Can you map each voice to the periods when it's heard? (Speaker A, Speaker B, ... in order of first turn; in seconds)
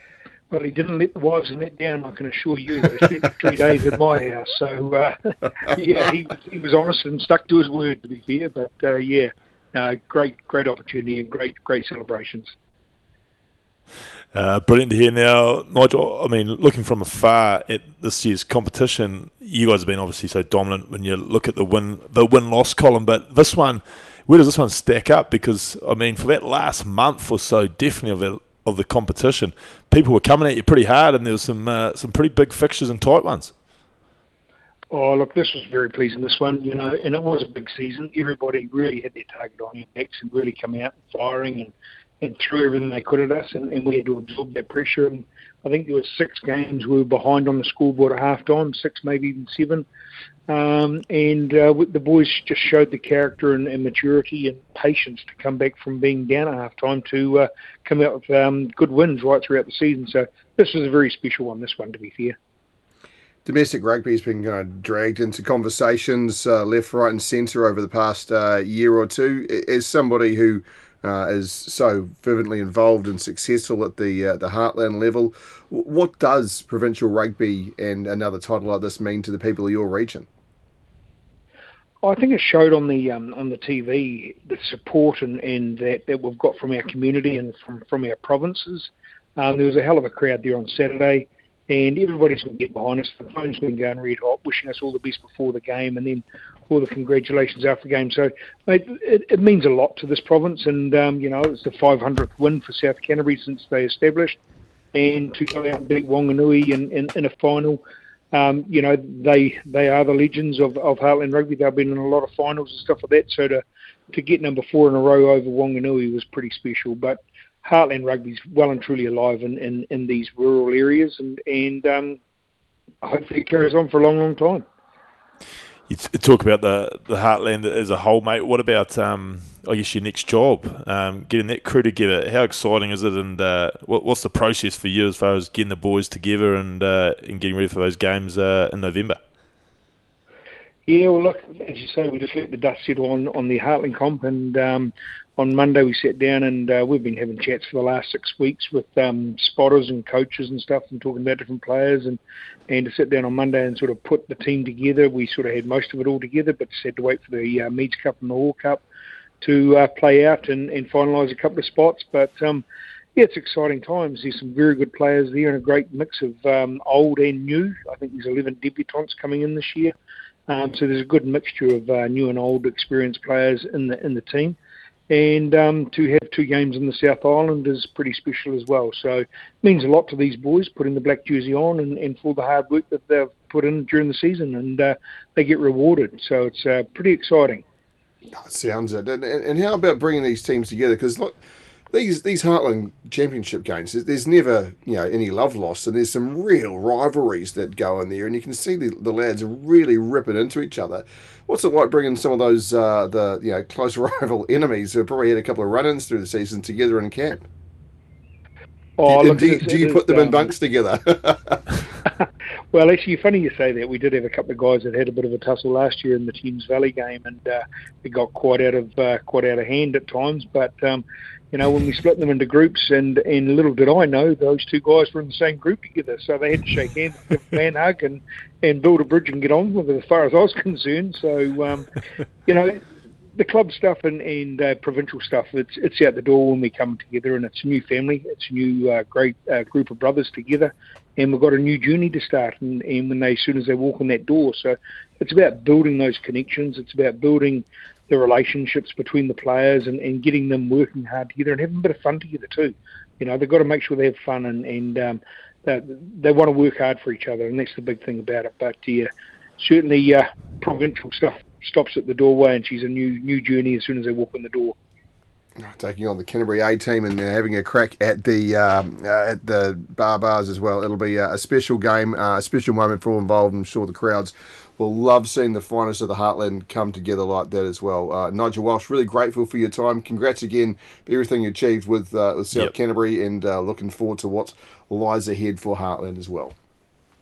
Speaker A: 0.5-12.5, 34.9-49.9, 50.5-62.4, 82.0-104.4, 104.9-122.2, 123.0-124.6, 140.8-158.8, 159.4-169.9, 170.5-174.6, 175.1-187.6, 209.0-210.5, 212.7-231.9, 232.4-232.8, 233.3-264.8
Speaker B: 14.3-33.5, 125.9-139.2
Speaker C: 63.4-80.3, 188.3-191.3, 191.9-207.4, 209.1-211.8, 265.6-286.5